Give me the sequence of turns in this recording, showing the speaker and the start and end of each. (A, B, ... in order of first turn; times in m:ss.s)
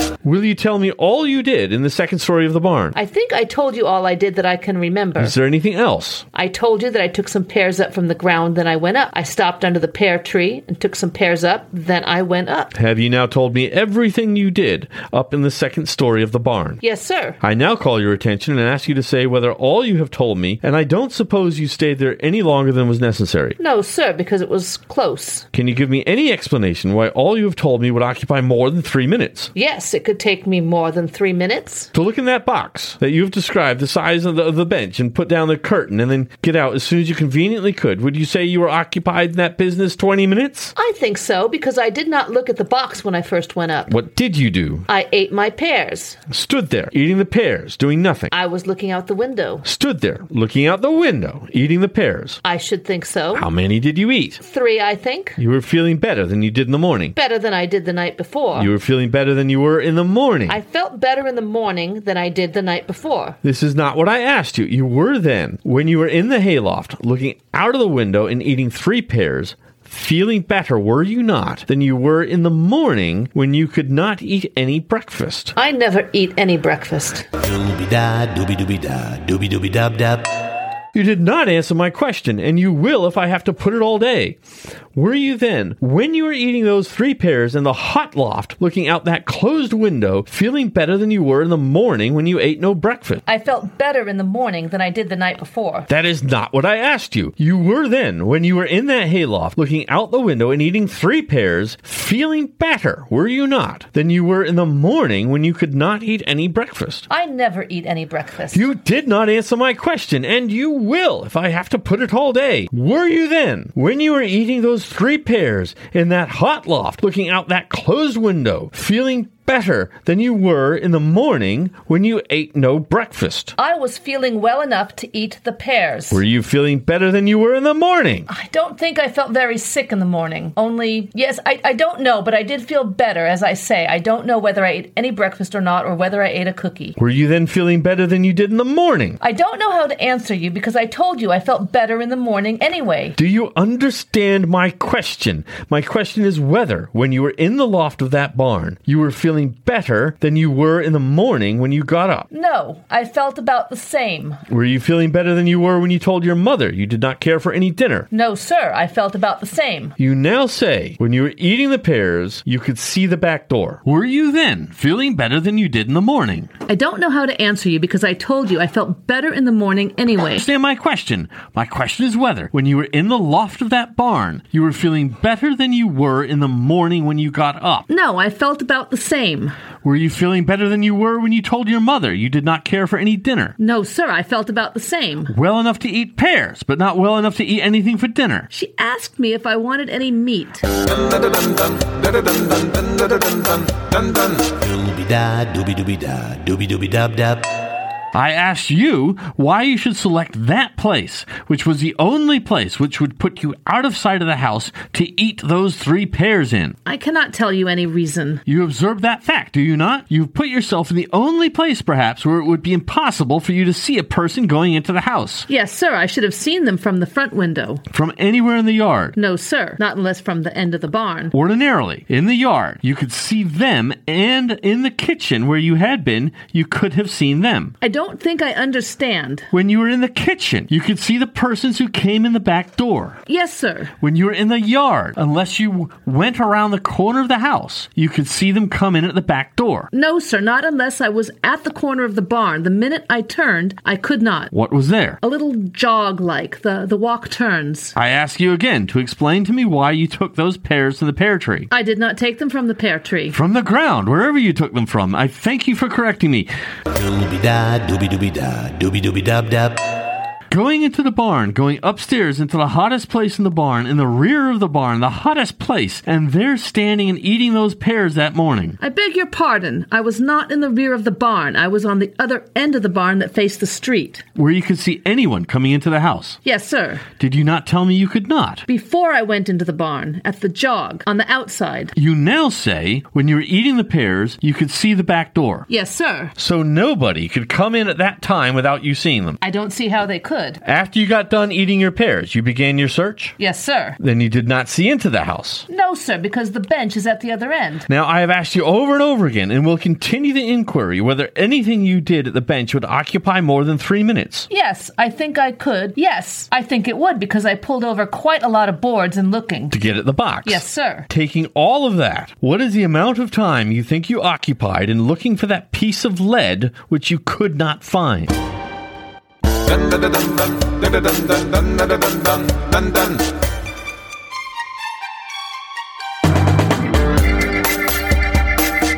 0:00.2-0:03.0 A
0:03.0-0:05.4 B
0:05.2-0:06.3 A
0:06.3-0:12.7 B
0:12.7-0:16.8 A
0:16.8-0:17.4 B
0:17.4-0:23.6 A
0:23.6-0:25.5 B
0:25.5-0:29.5 A
0:29.6-0:31.9 B
0:31.9-0:40.7 A
0:40.8-0:43.9 B
0:43.9-0:44.9 A
0:44.9-0:46.2 B
0:46.3-0:48.3 A
0:48.3-0:49.6 B
0:49.6-0:52.4 A
0:52.4-0:53.5 B
0:53.4-0:54.4 A
0:54.4-0:55.4 B
0:55.4-0:57.2 A
0:57.2-0:58.7 B
0:58.6-1:00.6 A
1:00.5-1:03.4 B
1:03.4-1:15.6 A
1:15.6-1:17.3 B
1:17.4-1:20.3 C
1:20.9-1:24.4 A
1:24.9-1:33.2 A
1:33.3-1:35.9 B
1:35.9-1:47.1 A
1:47.1-1:48.7 B
1:48.5-2:03.6 A
2:03.6-2:06.2 B
2:06.1-2:08.3 A
2:08.3-2:17.0 B
2:17.0-2:19.2 A
2:19.2-2:23.2 B
2:23.2-2:32.3 A
2:32.3-2:34.4 B
2:34.5-2:38.1 A
2:38.1-2:40.0 B
2:40.0-2:46.5 A
2:46.6-2:50.5 B
2:50.4-2:57.9 A
2:57.9-2:59.6 B
2:59.8-3:03.6 A
3:03.6-3:05.3 B
3:05.3-3:08.5 A
3:08.5-3:10.9 B
3:12.6-3:14.2 B
3:14.5-3:17.5 C
3:18.1-3:26.8 A
3:26.9-3:28.4 B
3:28.5-3:35.5 A
3:35.5-3:37.8 B
3:37.9-3:39.2 A
3:39.2-3:41.3 B
3:41.3-3:47.8 A
3:47.8-3:49.5 B
3:49.5-3:53.2 A
3:53.3-3:53.9 B
3:54.0-3:59.9 A
3:59.9-4:04.5 B
4:04.5-4:05.2 A
4:05.2-4:08.0 B
4:08.0-4:11.7 A
4:11.7-4:13.4 B
4:13.3-4:16.5 A
4:16.9-4:19.8 C
4:20.5-4:28.8 A
4:28.8-4:34.2 B
4:34.4-4:36.4 A
4:36.4-4:37.1 B
4:37.1-4:38.6 A
4:38.7-4:41.9 B
4:42.0-4:45.7 A
4:45.7-4:46.3 B
4:46.4-4:49.4 A
4:49.4-4:50.6 B
4:50.6-4:53.4 A
4:53.4-4:54.0 B
4:54.0-4:55.7 A
4:55.7-4:57.9 B
4:57.9-5:04.5 A
5:04.5-5:09.8 B
5:09.7-5:18.4 A
5:10.4-5:11.1 B